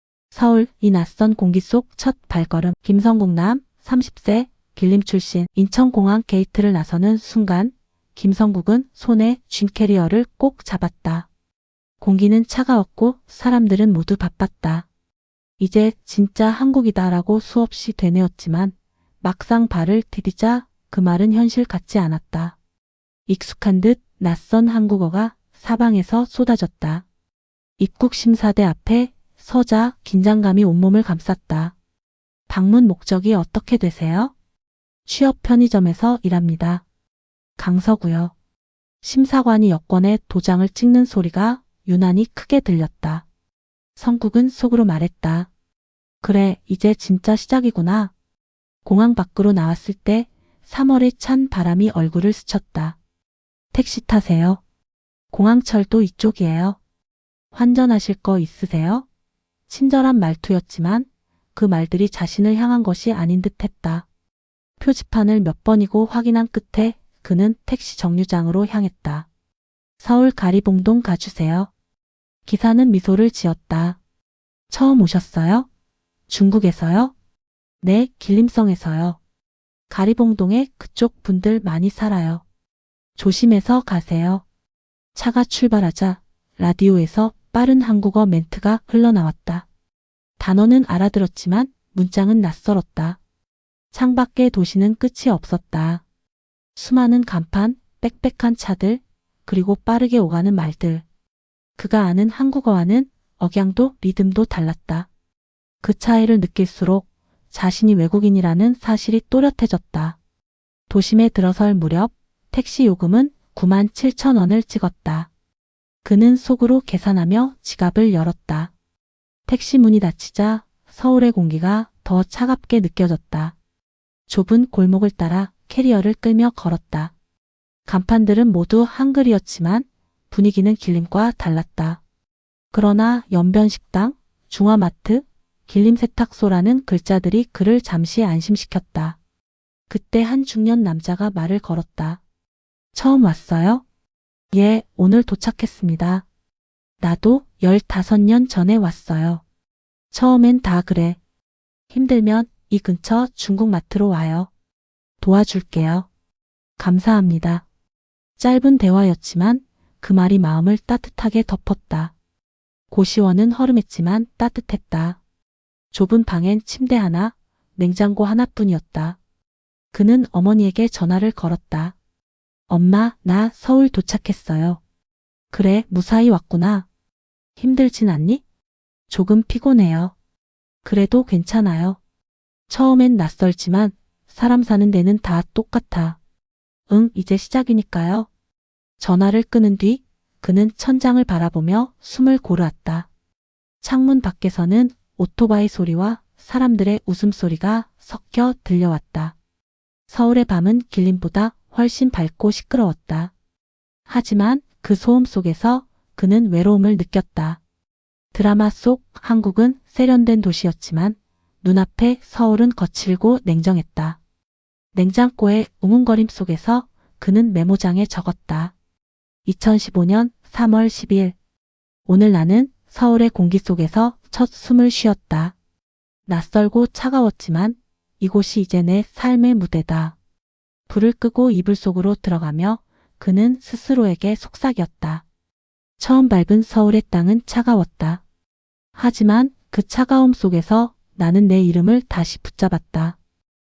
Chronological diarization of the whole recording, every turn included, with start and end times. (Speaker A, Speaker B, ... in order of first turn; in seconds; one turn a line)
Speaker A: 0.3-11.3
Speaker A: 12.0-14.9
Speaker A: 15.6-22.6
Speaker A: 23.3-27.0
Speaker A: 27.8-31.7
Speaker A: 32.5-34.3
Speaker A: 35.0-36.8
Speaker A: 37.6-38.3
Speaker A: 39.0-43.2
Speaker A: 44.0-45.5
Speaker A: 46.2-48.1
Speaker A: 48.8-53.0
Speaker A: 53.7-54.6
Speaker A: 55.3-56.8
Speaker A: 57.5-59.0
Speaker A: 59.7-64.0
Speaker A: 64.8-69.3
Speaker A: 70.0-71.7
Speaker A: 72.5-74.0
Speaker A: 74.7-75.7
Speaker A: 76.3-77.1
Speaker A: 77.8-79.2
Speaker A: 79.9-82.4
Speaker A: 83.2-84.4
Speaker A: 85.1-89.7
Speaker A: 90.4-93.2
Speaker A: 93.9-96.0
Speaker A: 96.8-101.0
Speaker A: 101.8-105.1
Speaker A: 105.8-110.2
Speaker A: 110.9-115.3
Speaker A: 116.0-118.7
Speaker A: 119.5-123.5
Speaker A: 124.3-127.1
Speaker A: 127.9-132.0
Speaker A: 132.7-139.2
Speaker A: 139.9-142.2
Speaker A: 142.9-143.8
Speaker A: 144.5-146.2
Speaker A: 147.0-149.4
Speaker A: 150.1-151.2
Speaker A: 151.9-154.5
Speaker A: 155.2-156.1
Speaker A: 156.8-157.6
Speaker A: 158.4-162.1
Speaker A: 162.9-165.2
Speaker A: 165.9-169.2
Speaker A: 169.9-171.9
Speaker A: 172.7-174.8
Speaker A: 175.5-176.9
Speaker A: 177.6-178.4
Speaker A: 179.1-180.1
Speaker A: 180.8-182.0
Speaker A: 182.7-186.2
Speaker A: 186.9-188.3
Speaker A: 189.0-193.1
Speaker A: 193.8-199.3
Speaker A: 200.1-203.3
Speaker A: 204.1-207.6
Speaker A: 208.3-214.2
Speaker A: 214.9-218.7
Speaker A: 219.4-221.3
Speaker A: 222.1-225.5
Speaker A: 226.3-230.2
Speaker A: 230.9-235.2
Speaker A: 236.0-238.2
Speaker A: 238.9-243.2